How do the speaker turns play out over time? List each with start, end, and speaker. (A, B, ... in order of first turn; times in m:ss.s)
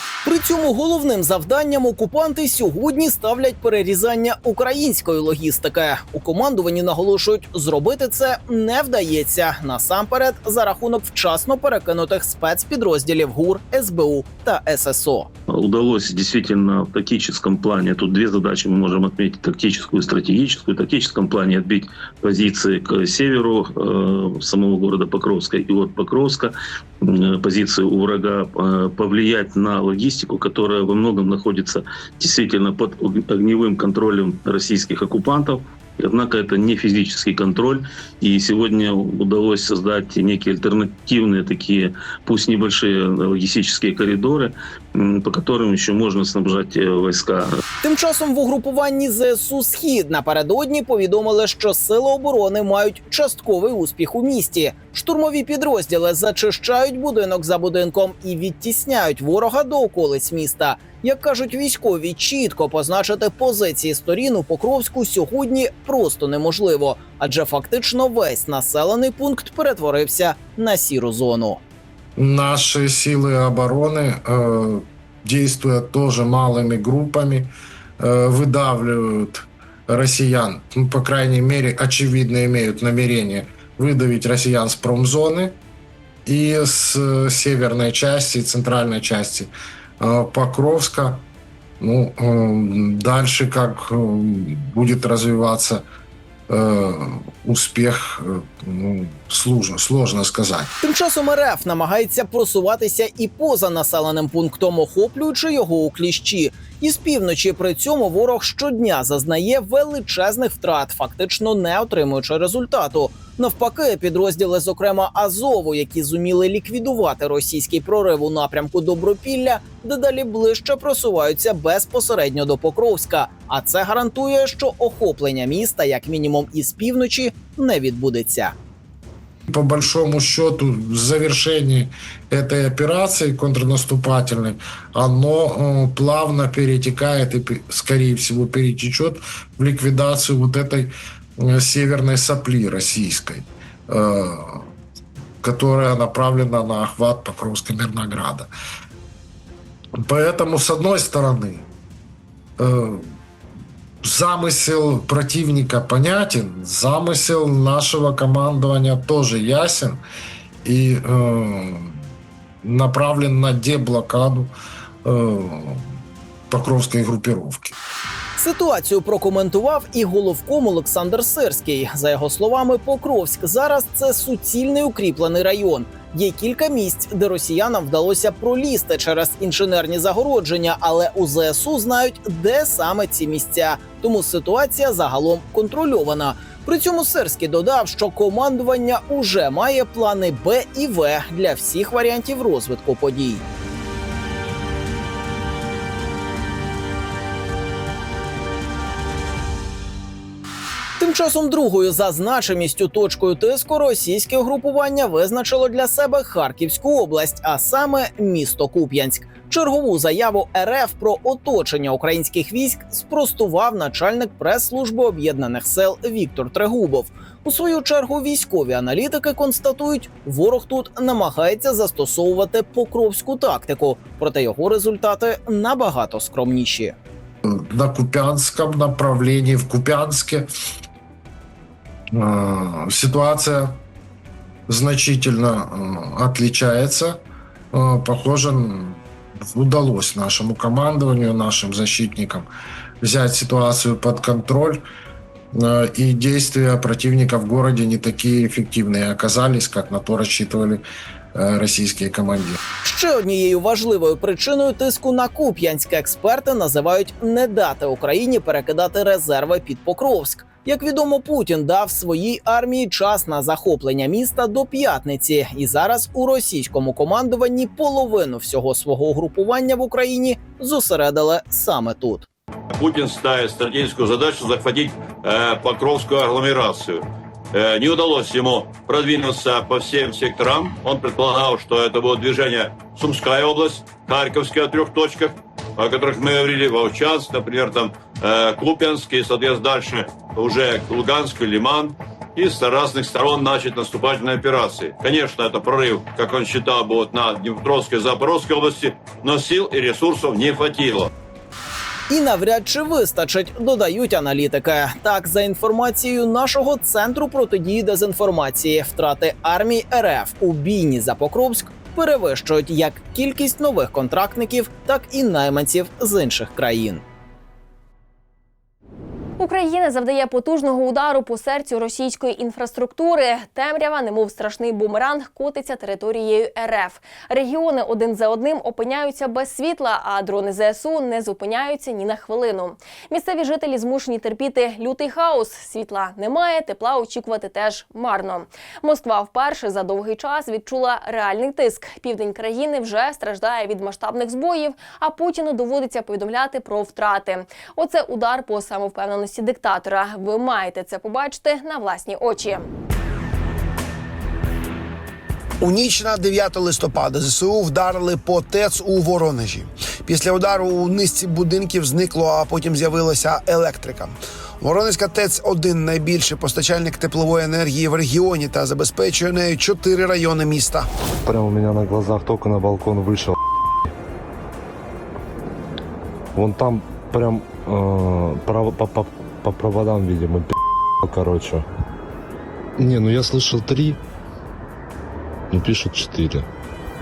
0:00.2-0:15.3 A
0:15.5-0:47.5 B
0:47.8-1:11.6 A
1:12.2-1:25.6 C
1:26.2-1:31.2 C
1:31.8-1:35.8 C
1:36.5-1:40.7 C
1:40.8-2:08.5 A
2:09.5-2:24.7 C
2:25.4-2:28.5 C
2:30.0-2:31.6 C
2:32.6-2:33.1 C
2:34.0-2:40.0 C
2:40.6-2:42.0 C
2:42.6-2:44.5 C
2:45.0-2:45.8 C
2:46.5-2:47.7 C
2:48.4-3:13.4 A
3:21.0-3:46.9 A
3:47.4-3:50.5 C
3:52.1-3:53.8 C
3:54.7-3:57.2 C
3:57.7-4:02.5 C
4:03.0-4:04.8 C
4:05.5-4:12.6 C
4:12.8-4:32.3 A
4:32.8-4:37.0 D
4:37.5-5:01.0 D
5:02.1-5:17.0 A
5:19.4-5:52.7 E
5:55.6-6:10.9 F
6:11.2-6:13.4 G
6:16.3-6:20.5 G
6:21.0-6:21.6 G
6:22.8-6:24.0 G
6:25.5-6:26.4 G